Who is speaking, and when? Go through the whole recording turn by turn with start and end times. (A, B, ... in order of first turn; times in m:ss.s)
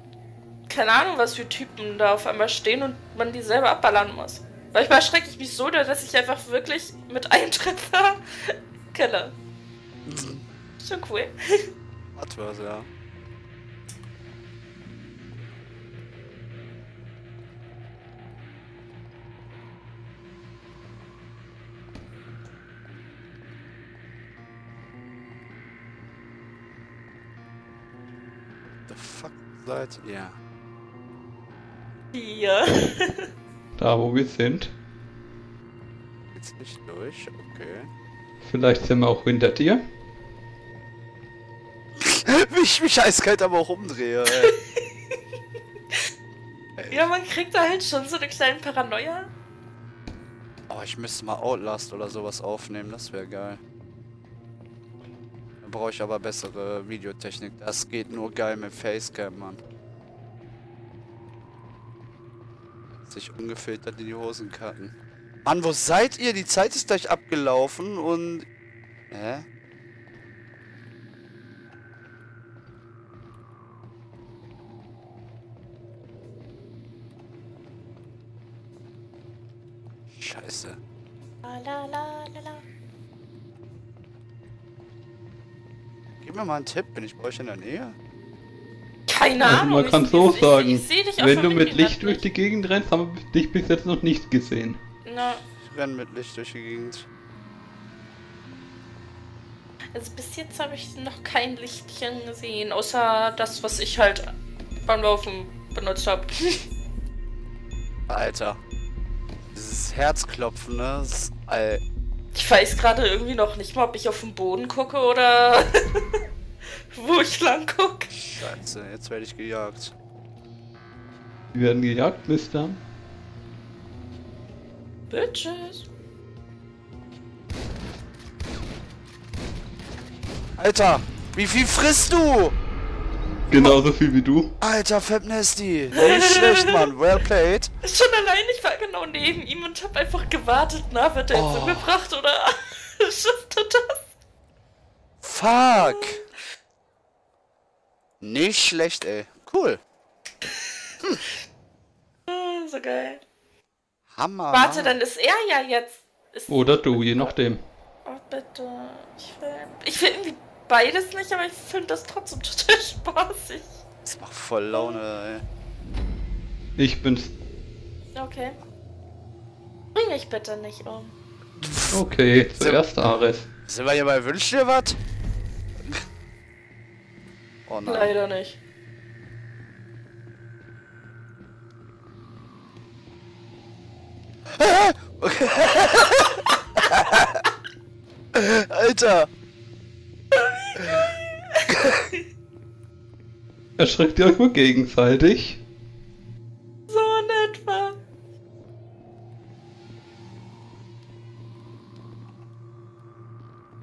0:00.7-0:09.3 A
0:10.1-0:10.4 B
0:10.8-0:11.7 A
0:12.2-0:12.9 B
0:28.9-0:30.4 B
0:32.1-0:33.3 A
0:33.8-0:34.7 C
0:36.3-0:37.9 B
0:38.4-0:39.8 C
0:42.0-0:44.6 B
0:44.4-0:44.8 A
0:46.8-0:47.1 B
0:46.9-0:49.3 A
0:50.7-0:53.6 B
0:55.6-0:59.6 B
1:03.0-1:08.5 B
1:09.1-1:09.5 B
1:20.1-1:20.8 B
1:21.4-1:22.6 A
1:26.2-1:28.0 B
1:29.1-1:32.3 A
1:29.4-1:34.8 C
1:35.0-1:35.4 A
1:35.6-1:37.1 B
1:40.0-1:44.3 A
1:44.8-1:46.7 A
1:48.1-1:48.6 B
1:49.5-1:51.8 B
1:52.3-1:56.2 A
1:56.9-1:58.3 A
1:58.2-2:00.0 B
2:01.5-2:02.8 C
2:05.1-2:05.9 A
2:10.6-2:12.6 B
2:13.5-2:14.5 C
2:14.6-2:17.7 B
2:16.0-2:16.9 A
2:17.8-2:24.0 A
2:21.3-2:21.9 B
2:25.2-2:26.2 B
2:25.8-2:26.2 A
2:28.2-2:29.8 B
2:32.3-2:33.2 A
2:34.1-2:35.0 B
2:34.5-2:37.3 A
2:36.5-2:37.6 C
2:38.0-2:43.8 A
2:44.0-2:45.4 B
2:44.7-2:45.0 A
2:46.8-2:47.3 C
2:48.2-2:48.6 A
2:50.0-2:51.1 A
2:51.6-2:52.0 B
2:51.9-2:53.5 C
2:52.6-2:52.8 B
2:53.7-2:55.0 B
2:57.7-2:58.1 B
2:57.9-2:58.6 A
3:04.6-3:07.4 B
3:08.3-3:09.3 B
3:10.3-3:11.7 A
3:11.7-3:12.0 B
3:13.8-3:15.6 C
3:16.9-3:18.0 A